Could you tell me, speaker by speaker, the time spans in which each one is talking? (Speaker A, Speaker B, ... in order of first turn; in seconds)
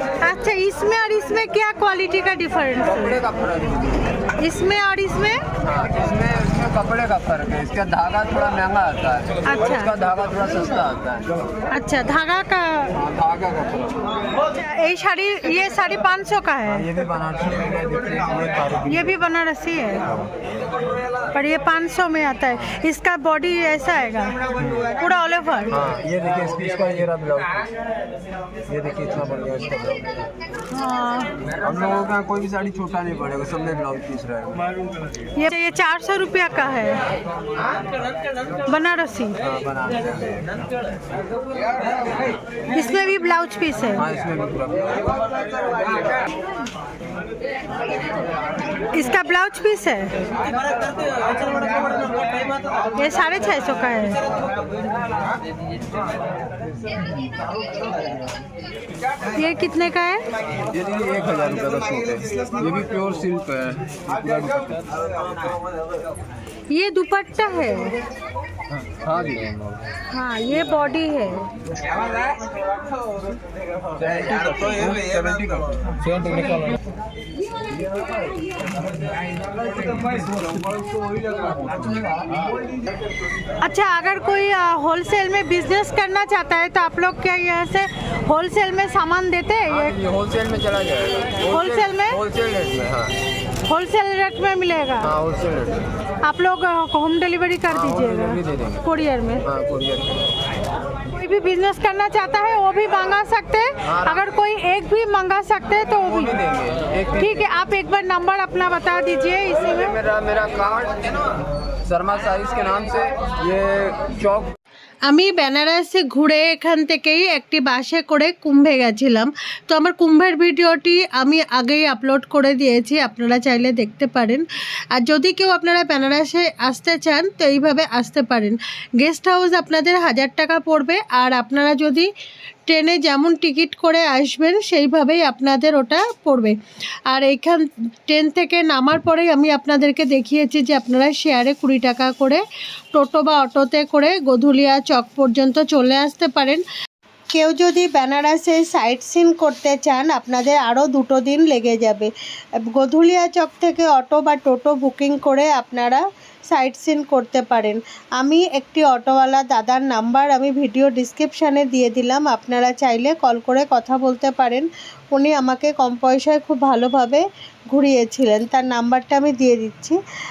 Speaker A: 0.2-2.9, 4.4-5.4, 9.5-9.9, 11.7-12.9, 14.6-16.8, 18.9-20.0, 21.3-24.3, 25.0-25.7, 30.7-31.3, 35.4-37.0, 38.7-39.3, 42.7-44.0, 48.9-50.1, 53.0-54.2, 59.4-60.2, 66.7-67.9, 70.1-71.4, 83.6-89.5, 91.6-92.0, 93.7-95.0, 96.3-97.6, 98.9-99.4, 101.4-103.5, 104.2-105.7, 107.7-109.0, 115.1-132.1, 132.7-136.6, 137.1-142.4, 142.9-146.6, 147.3-152.1, 152.7-170.0
Speaker B: 2.8-4.3, 5.6-11.4, 12.9-14.1, 16.7-19.2, 22.5-22.8, 24.6-24.9, 25.7-27.6, 28.7-30.2, 31.5-34.6, 39.4-40.5, 43.9-45.1, 60.7-64.9, 68.8-69.8, 73.9-76.7, 79.8-82.5, 89.7-93.2, 95.0-95.9, 97.7-98.8, 99.4-100.2, 103.8-104.3, 106.0-107.5, 109.5-114.5
Speaker C: 84.4-86.0, 89.4-89.9, 91.5-92.2, 96.4-98.4, 101.2-106.4, 107.2-109.9